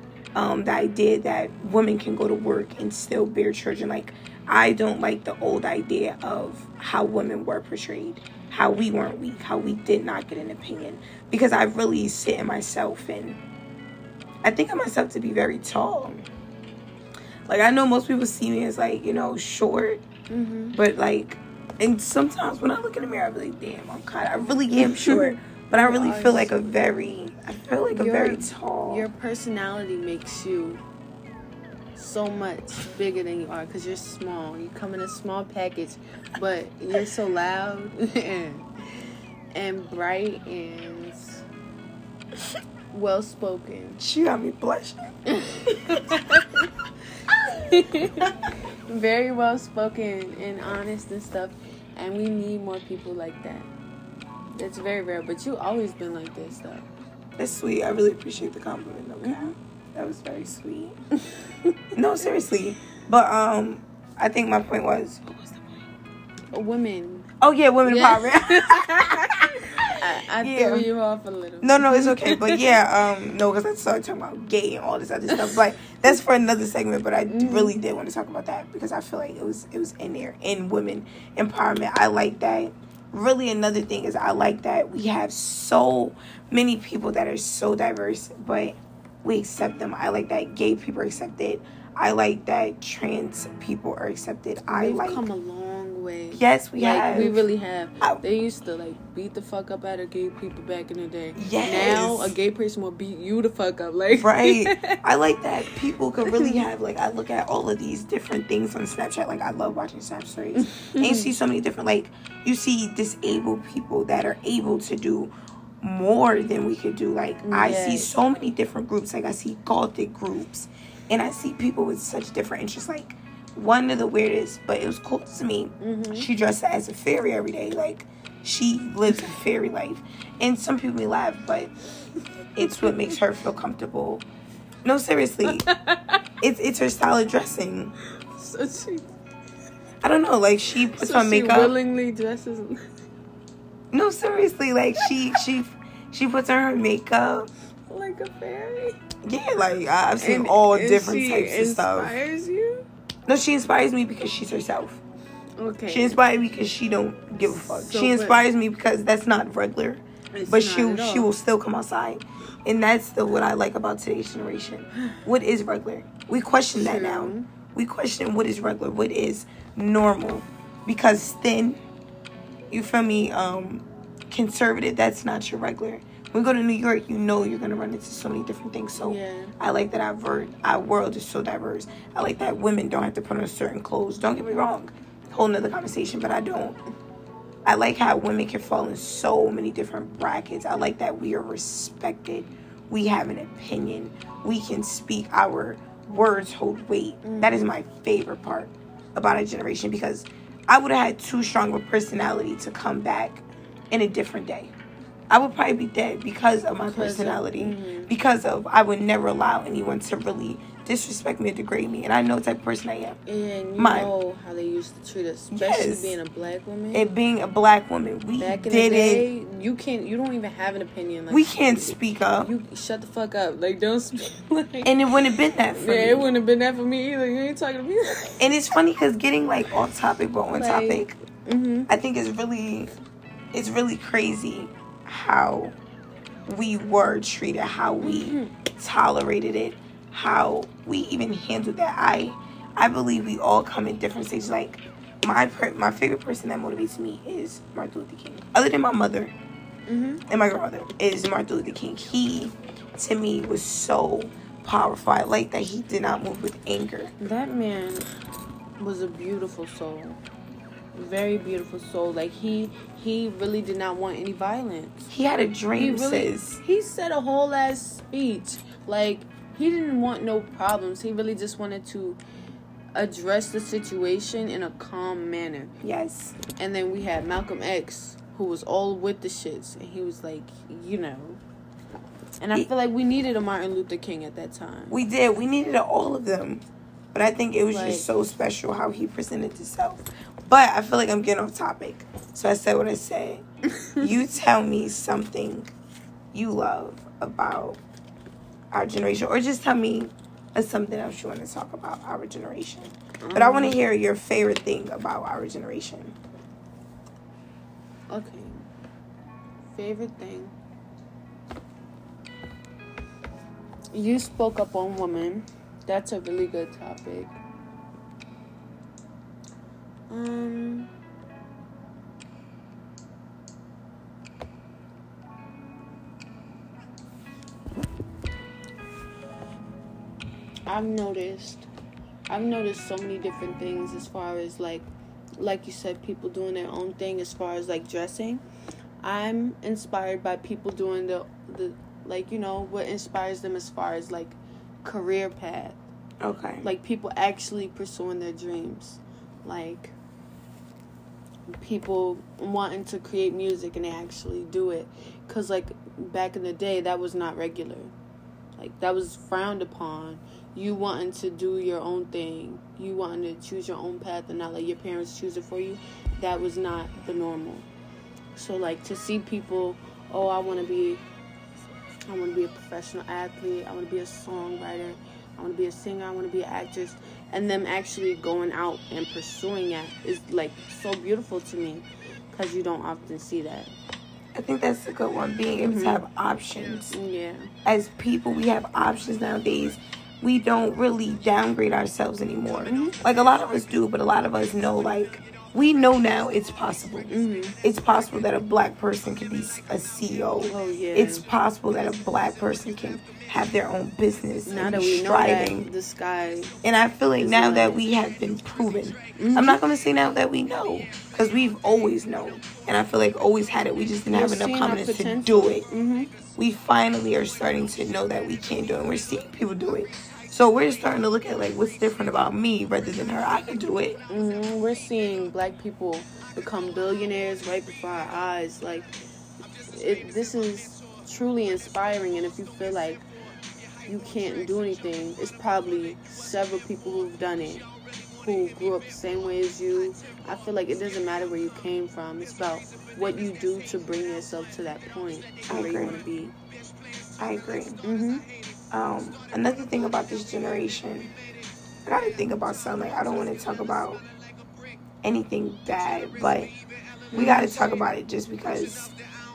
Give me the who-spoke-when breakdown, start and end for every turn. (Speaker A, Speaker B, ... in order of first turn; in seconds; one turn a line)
Speaker A: 0.3-13.4
Speaker A: 14.4-16.2
Speaker A: 17.5-20.0
Speaker B: 20.3-20.8
Speaker A: 20.7-29.1
Speaker B: 24.8-26.6
Speaker B: 27.9-30.8
Speaker B: 31.9-41.4
Speaker B: 42.9-44.0
Speaker A: 44.0-45.1
Speaker B: 45.3-46.6
Speaker B: 47.4-53.7
Speaker B: 54.5-56.9
Speaker A: 57.4-61.0
Speaker B: 59.2-59.5
Speaker A: 61.9-65.2
Speaker B: 66.5-67.3
Speaker A: 67.4-70.9
Speaker B: 67.8-72.6
Speaker A: 71.6-95.3
Speaker B: 77.3-77.8
Speaker B: 94.7-105.0
Speaker A: 96.3-97.4
Speaker A: 101.3-102.3
Speaker A: 104.1-131.7
Speaker B: 106.3-106.6
Speaker B: 110.6-111.3
Speaker B: 117.4-118.1
Speaker B: 125.8-126.3
Speaker A: 132.6-134.2
Speaker B: 132.7-133.1
Speaker A: 134.8-135.7
Speaker B: 135.4-136.2
Speaker A: 136.4-137.9
Speaker B: 138.3-139.1
Speaker A: 140.0-141.7
Speaker B: 140.9-142.9
Speaker A: 143.9-147.5
Speaker B: 147.9-149.0
Speaker A: 149.2-152.1
Speaker B: 150.2-152.8
Speaker A: 153.3-155.0
Speaker B: 155.6-156.2
Speaker A: 155.9-171.8
Speaker B: 157.5-158.4
Speaker B: 160.3-161.3
Speaker B: 166.8-167.5
Speaker A: 172.7-186.8
Speaker B: 179.0-179.5
Speaker A: 187.6-204.7
Speaker B: 197.2-197.7
Speaker A: 205.3-213.2
Speaker B: 206.8-208.2
Speaker B: 213.2-217.1
Speaker A: 213.8-214.1
Speaker A: 215.5-216.2
Speaker A: 216.9-219.3
Speaker B: 218.4-224.9
Speaker A: 221.3-222.5
Speaker A: 224.8-226.3
Speaker B: 225.7-228.5
Speaker A: 228.4-231.1
Speaker B: 230.6-231.9
Speaker A: 231.9-232.9
Speaker A: 233.5-235.7
Speaker A: 236.5-249.3
Speaker B: 238.0-238.5
Speaker B: 249.9-250.2
Speaker A: 250.3-257.1
Speaker B: 257.2-258.1
Speaker B: 258.8-260.2
Speaker B: 260.9-265.1
Speaker A: 265.1-266.6
Speaker B: 265.8-272.2
Speaker B: 272.9-275.7
Speaker A: 275.8-276.4
Speaker B: 276.5-281.4
Speaker B: 282.4-285.0
Speaker A: 284.9-293.4
Speaker B: 287.7-288.1
Speaker B: 293.8-294.0
Speaker A: 294.0-295.7
Speaker A: 296.3-297.8
Speaker A: 298.7-306.1
Speaker B: 303.2-303.8
Speaker B: 308.1-308.6
Speaker B: 309.7-310.5
Speaker B: 313.9-317.4
Speaker B: 320.1-320.9
Speaker B: 330.7-331.7
Speaker B: 332.3-334.9
Speaker B: 335.4-338.4
Speaker B: 339.0-345.8
Speaker A: 346.2-346.7
Speaker B: 346.6-349.9
Speaker B: 351.5-357.9
Speaker B: 358.6-367.6
Speaker B: 368.3-371.0
Speaker B: 372.1-383.7
Speaker A: 384.3-386.9
Speaker B: 385.6-386.0
Speaker B: 386.9-387.5
Speaker A: 387.6-405.7
Speaker B: 392.6-392.9
Speaker B: 397.1-397.6
Speaker B: 400.4-401.2
Speaker B: 404.4-406.5
Speaker A: 406.6-415.7
Speaker B: 407.2-407.8
Speaker B: 409.1-409.6
Speaker B: 414.1-416.1
Speaker A: 416.4-424.0
Speaker B: 424.1-429.0
Speaker B: 429.7-433.1
Speaker B: 433.9-437.7
Speaker B: 438.2-446.3
Speaker A: 445.5-446.0
Speaker A: 447.2-447.8
Speaker B: 447.8-448.2
Speaker A: 448.7-451.1
Speaker A: 451.8-454.0
Speaker A: 455.0-456.5
Speaker B: 457.1-457.7
Speaker A: 457.1-458.9